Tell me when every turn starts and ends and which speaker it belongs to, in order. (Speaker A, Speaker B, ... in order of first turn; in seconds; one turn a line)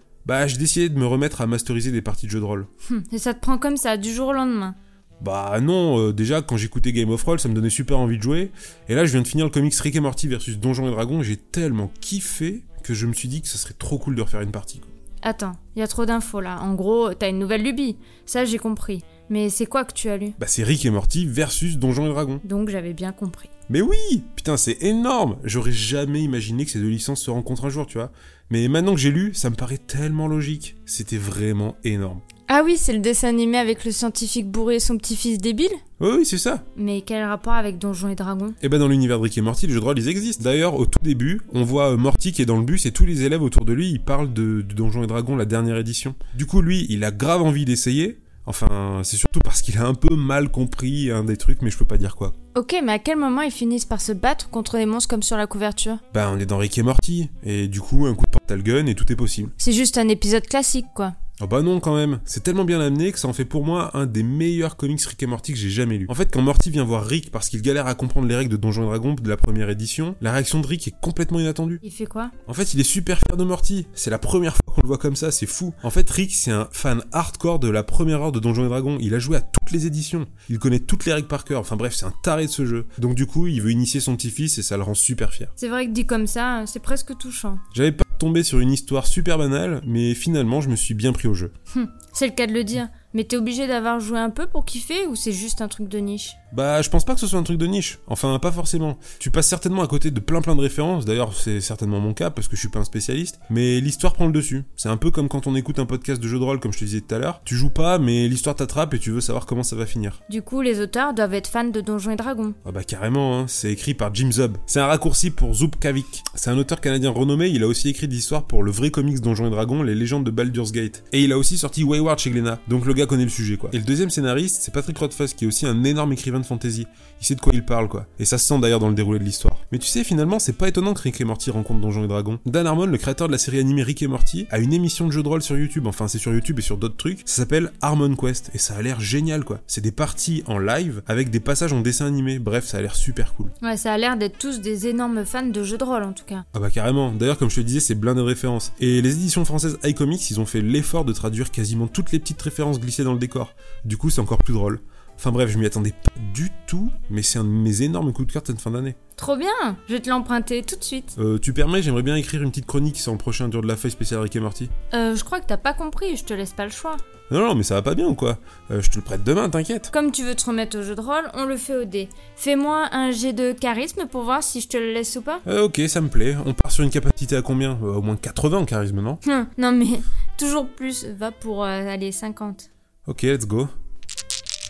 Speaker A: 0.2-2.7
Speaker B: 2.9-4.8
Speaker A: 5.2-14.9
Speaker B: 15.2-20.4
Speaker A: 20.4-22.4
Speaker B: 22.4-23.5
Speaker A: 23.7-32.2
Speaker B: 32.5-35.8
Speaker A: 36.0-36.6
Speaker B: 36.8-38.6
Speaker A: 38.6-52.4
Speaker B: 52.5-56.0
Speaker A: 56.1-59.5
Speaker B: 59.6-61.1
Speaker A: 61.4-71.8
Speaker B: 71.8-72.3
Speaker A: 72.5-85.5
Speaker B: 85.6-87.6
Speaker A: 87.7-91.5
Speaker B: 91.7-96.4
Speaker A: 96.5-110.2
Speaker B: 110.3-112.6
Speaker A: 112.7-143.6
Speaker B: 143.6-146.4
Speaker A: 146.5-159.0
Speaker B: 159.2-161.2
Speaker A: 161.2-164.7
Speaker B: 164.9-167.0
Speaker A: 167.3-169.9
Speaker B: 169.9-175.4
Speaker A: 175.4-179.2
Speaker B: 179.2-182.7
Speaker A: 183.1-183.7